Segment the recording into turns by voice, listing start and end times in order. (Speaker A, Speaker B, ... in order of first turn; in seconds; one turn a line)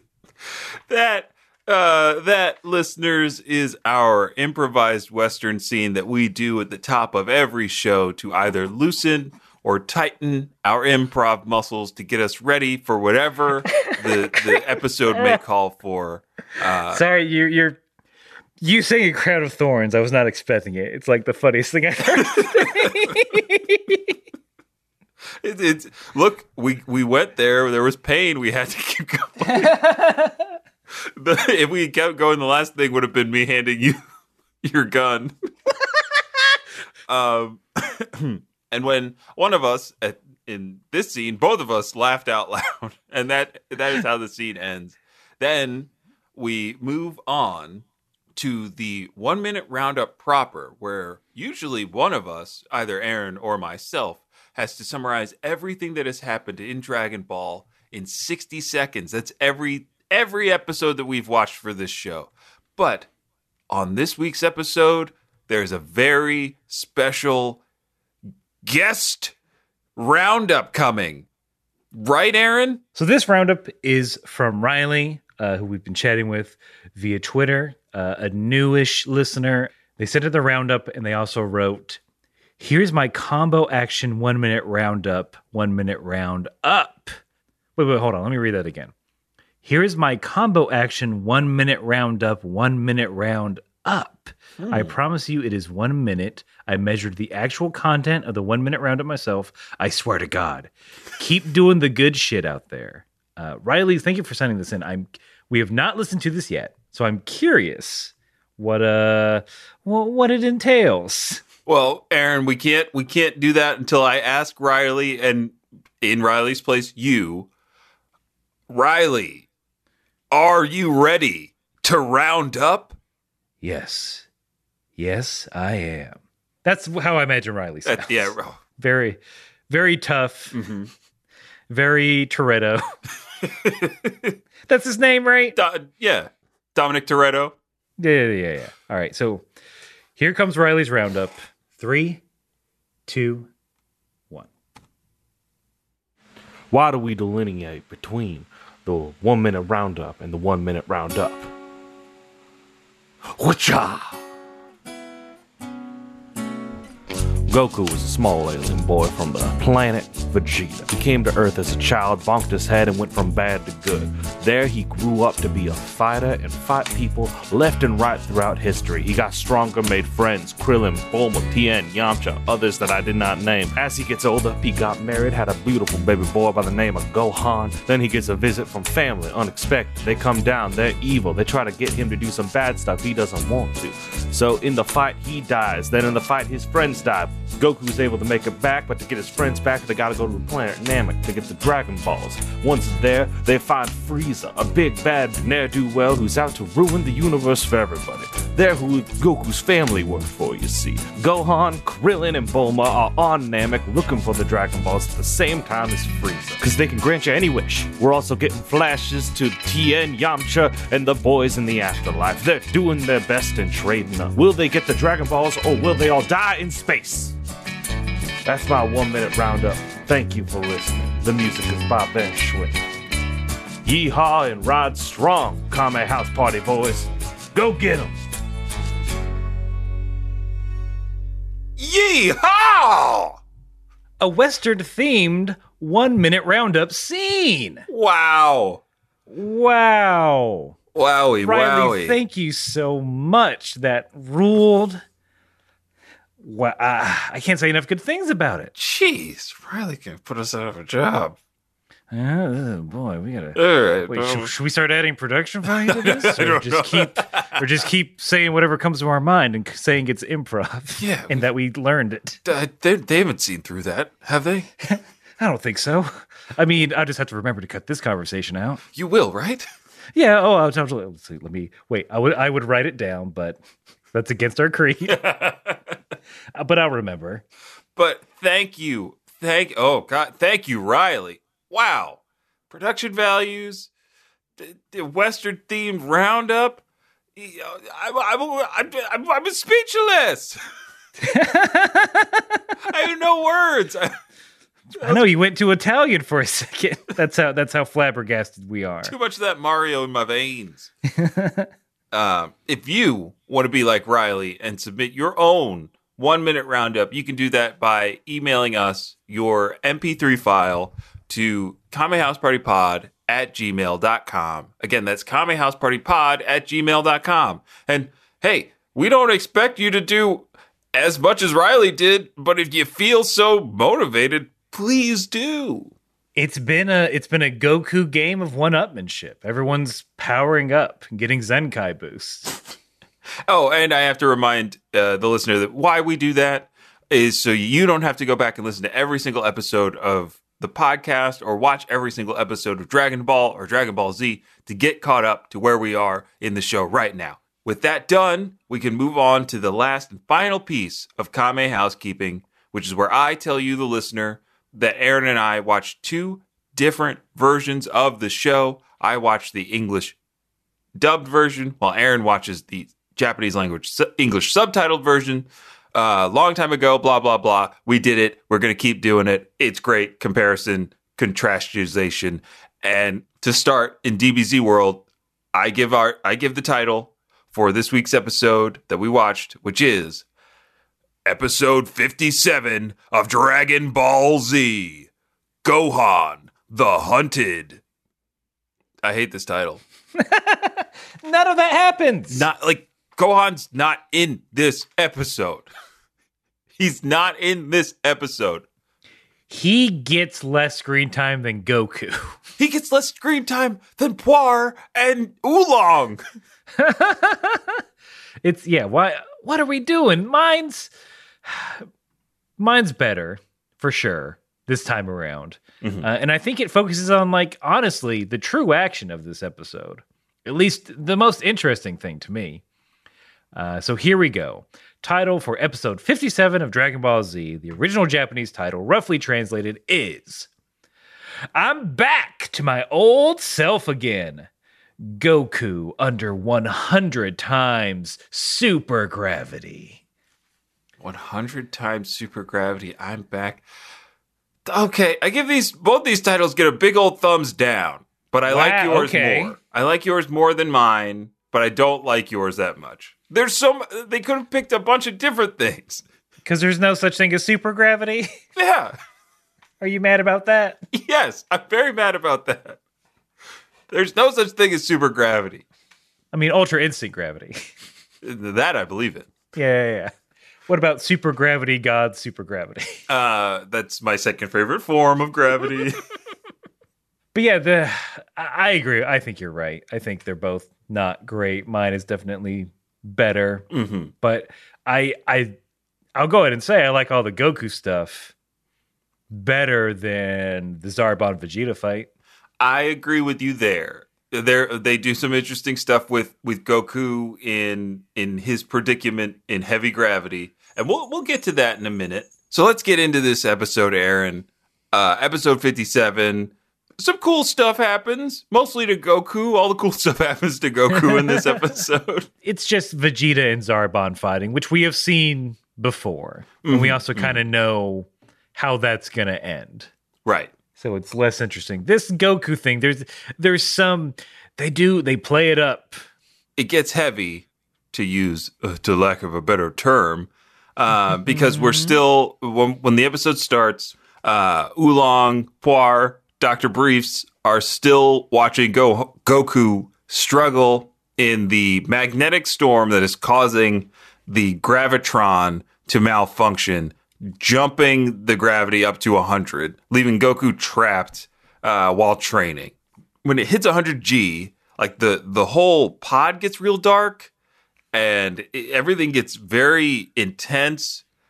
Speaker A: 0.9-17.0
Speaker B: 16.9-17.8
Speaker B: 18.6-24.1
Speaker A: 22.2-22.9
Speaker A: 25.4-29.8
Speaker B: 29.5-30.5
Speaker A: 30.9-34.0
Speaker A: 34.6-35.3
Speaker A: 37.1-63.1
Speaker A: 63.7-67.6
Speaker A: 68.6-69.3
Speaker A: 70.0-71.3
Speaker A: 71.9-72.8
Speaker B: 73.0-82.0
Speaker B: 82.6-87.2
Speaker B: 87.8-88.9
Speaker B: 89.6-111.4
Speaker A: 94.6-94.9
Speaker A: 111.7-117.5
Speaker A: 118.7-119.5
Speaker A: 120.3-123.0
Speaker B: 123.6-124.3
Speaker B: 125.0-130.6
Speaker A: 127.8-128.6
Speaker A: 130.5-130.9
Speaker B: 131.7-132.8
Speaker A: 133.4-134.4
Speaker B: 134.7-135.6
Speaker A: 135.6-137.6
Speaker B: 138.0-139.5
Speaker B: 140.2-142.2
Speaker B: 143.1-143.5
Speaker C: 146.7-151.5
Speaker C: 153.3-154.2
Speaker C: 157.5-217.3
Speaker C: 218.4-222.8
Speaker C: 223.8-228.1
Speaker A: 231.8-233.4
Speaker B: 234.2-237.9
Speaker A: 237.9-238.8
Speaker B: 239.3-240.8
Speaker A: 240.9-242.2
Speaker B: 241.4-245.0
Speaker B: 246.4-248.7
Speaker A: 248.8-251.4
Speaker B: 252.1-262.4
Speaker A: 253.6-254.5
Speaker A: 255.9-257.7
Speaker A: 261.0-261.5
Speaker A: 262.4-264.7
Speaker B: 264.8-268.8
Speaker A: 268.9-269.7
Speaker B: 270.2-273.6
Speaker B: 274.1-275.2
Speaker A: 275.1-275.8
Speaker B: 276.6-277.4
Speaker A: 278.0-283.9
Speaker A: 284.6-286.8
Speaker A: 287.4-290.6
Speaker B: 291.2-292.7
Speaker A: 292.8-294.1
Speaker B: 294.9-299.1
Speaker A: 295.0-295.2
Speaker A: 299.0-300.9
Speaker B: 301.1-301.7
Speaker A: 302.1-325.9
Speaker B: 326.4-332.6
Speaker A: 333.5-360.2
Speaker A: 361.0-380.2
Speaker A: 381.3-385.1
Speaker A: 385.6-387.8
Speaker A: 389.0-389.8
Speaker B: 390.2-392.5
Speaker A: 392.3-395.7
Speaker A: 396.8-398.7
Speaker B: 399.5-402.4
Speaker A: 402.6-406.2
Speaker B: 406.8-407.8
Speaker B: 408.4-410.9
Speaker B: 411.4-411.9
Speaker B: 412.6-422.6
Speaker A: 415.8-416.1
Speaker B: 423.6-430.5
Speaker B: 431.5-434.5
Speaker B: 435.1-440.0
Speaker A: 441.0-443.6
Speaker A: 444.7-456.0
Speaker B: 448.5-449.6
Speaker B: 456.4-458.3
Speaker A: 458.6-458.9
Speaker B: 459.8-460.8
Speaker A: 460.9-462.8
Speaker A: 463.9-465.6
Speaker B: 466.3-467.7
Speaker A: 468.2-469.3
Speaker B: 469.5-470.1
Speaker B: 470.7-473.0
Speaker A: 473.1-476.0
Speaker B: 477.3-483.6
Speaker A: 483.7-484.1
Speaker B: 484.2-485.6
Speaker B: 486.2-488.3
Speaker B: 489.3-492.1
Speaker A: 492.6-512.3
Speaker B: 512.4-519.9
Speaker A: 516.6-517.4
Speaker A: 520.2-520.5
Speaker B: 520.8-526.0
Speaker A: 526.6-557.3
Speaker B: 531.3-532.0
Speaker A: 557.9-561.0